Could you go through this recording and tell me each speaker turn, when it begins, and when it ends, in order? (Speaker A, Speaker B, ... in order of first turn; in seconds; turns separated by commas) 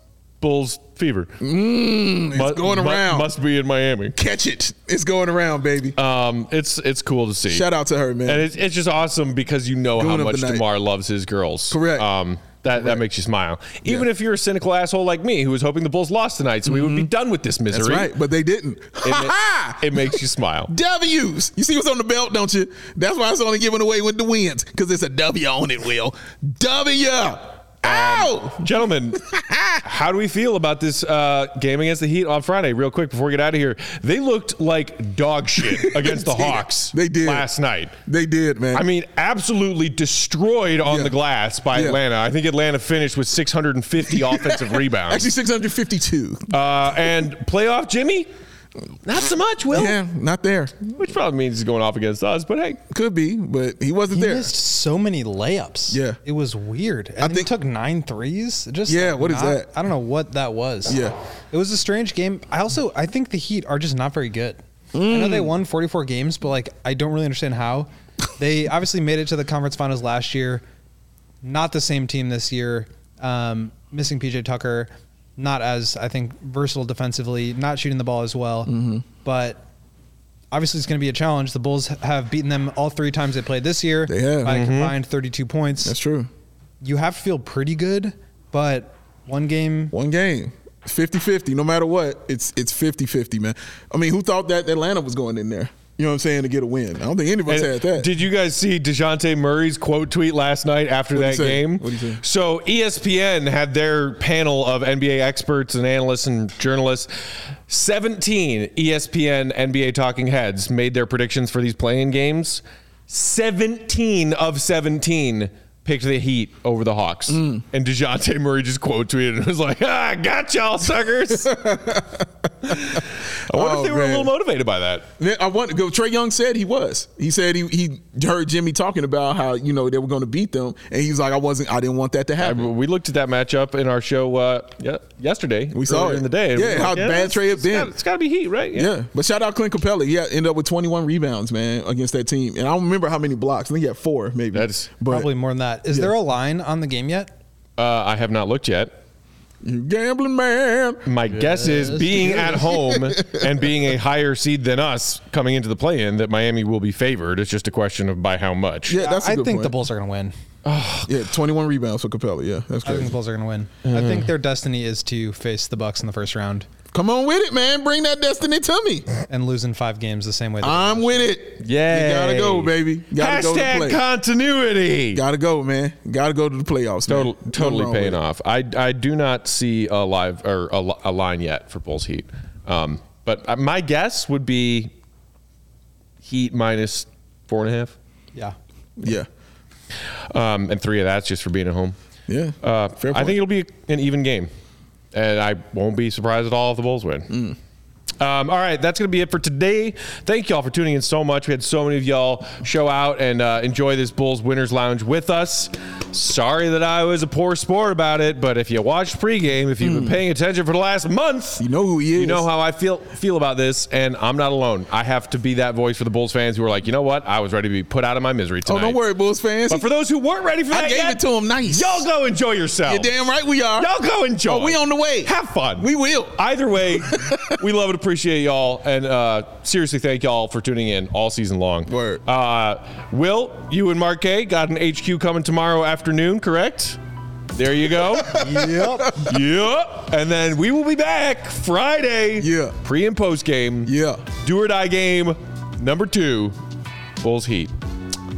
Speaker A: 0.4-1.3, Speaker B: 1.4-3.3, Speaker A: 2.3-4.1, Speaker B: 4.2-6.0, Speaker A: 6.0-7.7, Speaker B: 7.5-8.4, Speaker A: 8.2-18.1, Speaker B: 10.0-10.6, Speaker B: 11.7-12.1, Speaker B: 12.7-13.0, Speaker B: 16.6-17.1, Speaker B: 17.7-20.1, Speaker A: 19.0-20.7, Speaker B: 20.7-28.6, Speaker A: 27.8-29.2, Speaker B: 29.3-29.8, Speaker A: 29.8-37.9, Speaker B: 35.7-37.5, Speaker B: 38.1-38.8, Speaker A: 38.7-45.3, Speaker B: 40.9-41.1, Speaker B: 41.7-42.0, Speaker B: 44.1-46.4, Speaker A: 46.5-48.3, Speaker A: 49.0-50.0, Speaker B: 49.7-50.9, Speaker A: 50.9-52.8, Speaker B: 52.9-54.5, Speaker C: 54.1-61.0, Speaker B: 55.9-56.2, Speaker B: 57.2-57.5, Speaker B: 58.9-59.7, Speaker B: 60.9-61.1, Speaker C: 61.5-70.6, Speaker B: 64.9-65.5, Speaker C: 71.4-79.6, Speaker B: 78.7-79.0, Speaker C: 80.5-86.0, Speaker B: 84.1-84.6, Speaker A: 84.4-84.9, Speaker B: 85.8-86.3, Speaker C: 86.8-89.9, Speaker B: 89.9-98.1, Speaker A: 97.5-107.1, Speaker B: 101.1-102.2, Speaker A: 107.7-121.5, Speaker B: 117.3-117.6, Speaker B: 121.4-123.0, Speaker A: 122.7-125.1, Speaker B: 123.5-124.3, Speaker B: 125.2-132.7, Speaker A: 132.4-138.9, Speaker B: 135.7-137.9, Speaker B: 138.7-145.3, Speaker A: 144.5-144.9, Speaker C: 145.1-147.3, Speaker A: 147.8-148.9, Speaker B: 149.6-151.0, Speaker A: 151.0-159.0, Speaker C: 151.3-152.5, Speaker B: 152.2-153.4, Speaker B: 158.9-159.8, Speaker C: 158.9-160.3, Speaker A: 160.6-161.1, Speaker B: 161.1-163.1, Speaker C: 162.8-166.7, Speaker A: 163.8-164.3, Speaker B: 166.9-169.1, Speaker C: 169.3-171.3, Speaker B: 170.6-174.0, Speaker A: 171.6-175.2, Speaker B: 175.1-178.2, Speaker A: 177.1-184.9, Speaker A: 186.2-187.9, Speaker B: 189.0-189.3, Speaker A: 190.3-191.9, Speaker B: 192.3-193.4, Speaker A: 192.6-194.5, Speaker A: 195.1-197.3, Speaker B: 197.3-197.6, Speaker A: 198.2-219.0, Speaker B: 209.8-210.1, Speaker B: 211.6-212.4, Speaker B: 218.7-219.9, Speaker A: 219.7-223.2, Speaker B: 220.7-222.0, Speaker B: 222.9-223.9, Speaker A: 223.8-237.0, Speaker B: 224.5-226.3, Speaker B: 227.2-227.5, Speaker B: 231.9-232.2, Speaker A: 237.5-238.4, Speaker B: 238.2-239.3, Speaker C: 238.3-239.2, Speaker A: 239.2-246.6, Speaker B: 242.4-242.7, Speaker B: 243.9-244.2, Speaker A: 247.2-247.7